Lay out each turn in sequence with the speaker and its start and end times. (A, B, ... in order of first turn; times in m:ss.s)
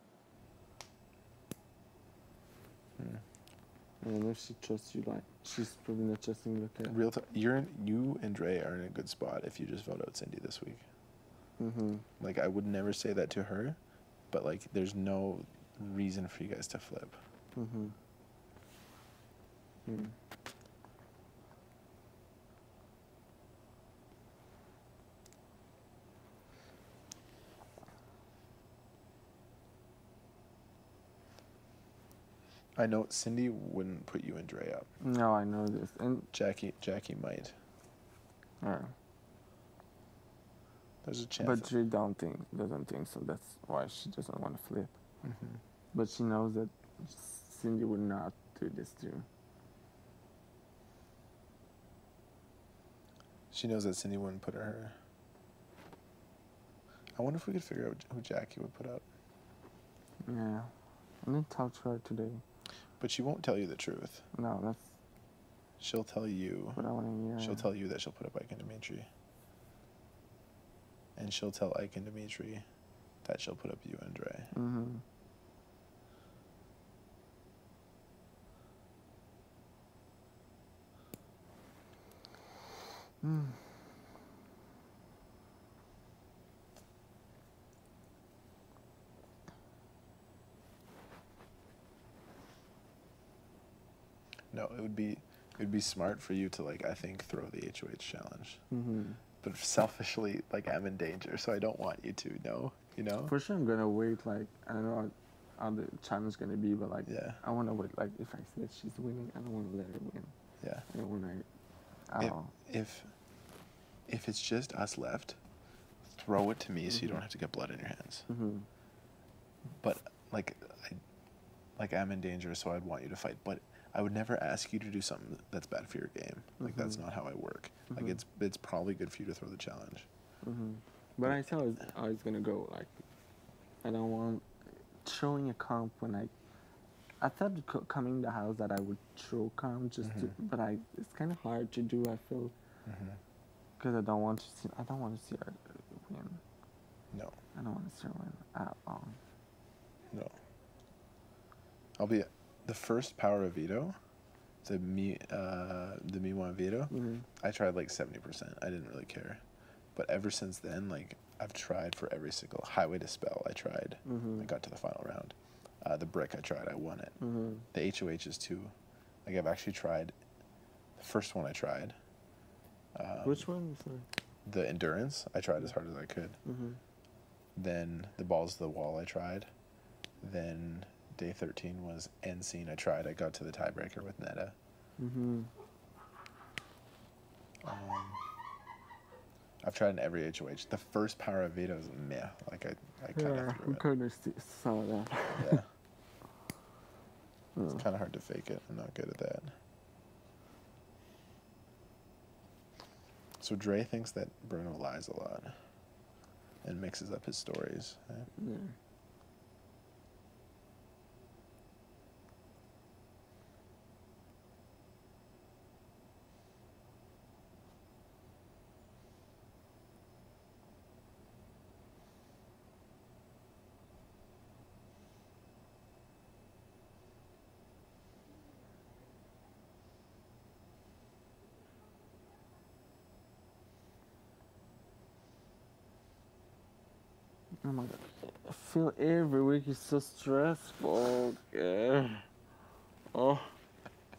0:03.0-0:03.2 A
0:04.0-0:07.0 B
0:06.9-0:10.8 A
0:11.6-0:12.0 B
0:12.2-0:13.8 A
0:14.3-0:17.2 A
0:17.6-0:17.9 B
0:19.8-0:20.1 B
0:32.8-0:34.9 A
0:35.0-0:36.3 B
0:36.3-0:37.5 A
0:38.6-0:38.9 B
0:41.0-0:41.7 A
0:41.4-0:44.9 B
0:45.2-0:45.6 A
0:45.9-0:49.2 B
0:53.5-0:55.0 A
0:57.2-0:59.0 A
1:00.2-1:00.7 B
1:01.2-1:02.4 B
1:03.0-1:04.2 A
1:04.3-1:05.0 B
1:05.8-1:06.9 A
1:06.8-1:07.7 B
1:07.4-1:09.1 A
1:11.2-1:12.6 A
1:13.2-1:14.5 A
1:14.5-1:15.0 B
1:23.2-1:23.6 B
1:34.5-1:38.6 A
1:38.7-1:39.2 B
1:39.4-1:43.3 A
1:43.3-1:50.3 B
1:47.0-1:47.4 A
1:50.6-1:50.8 A
1:50.9-1:51.4 B
1:52.1-1:52.5 B
1:52.2-1:53.1 A
1:54.1-1:55.4 A
1:56.0-1:58.3 A
1:56.9-1:57.2 B
1:58.3-1:58.7 B
1:59.8-2:01.0 A
2:01.8-2:10.1 A
2:06.6-2:07.0 B
2:07.9-2:08.2 B
2:10.4-2:13.0 B
2:11.2-2:11.5 A
2:13.8-2:14.4 B
2:15.0-2:16.3 B
2:17.2-2:22.5 B
2:20.0-2:20.3 A
2:22.8-2:23.2 A
2:23.8-2:26.4 B
2:27.5-2:29.2 B
2:32.0-2:33.9 A
2:34.6-2:39.4 A
2:36.9-2:37.2 B
2:39.9-2:47.2 A
2:44.0-2:44.5 B
2:47.2-2:47.6 B
2:47.7-2:48.7 A
2:49.2-2:50.1 A
2:51.0-2:51.9 A
2:52.9-2:53.5 A
2:53.2-2:54.1 B
2:54.4-2:56.4 A
2:56.4-2:56.8 B
2:57.6-2:59.5 A
3:00.2-3:04.6 A
3:05.0-3:05.5 B
3:07.6-3:08.2 A
3:09.6-3:13.8 A
3:13.2-3:15.6 B
3:15.4-3:15.7 A
3:17.5-3:17.8 B
3:17.7-3:19.5 A
3:23.4-3:25.5 A
3:26.6-3:28.3 A
3:28.4-3:28.7 B
3:57.6-4:02.2 B
4:03.1-4:03.6 B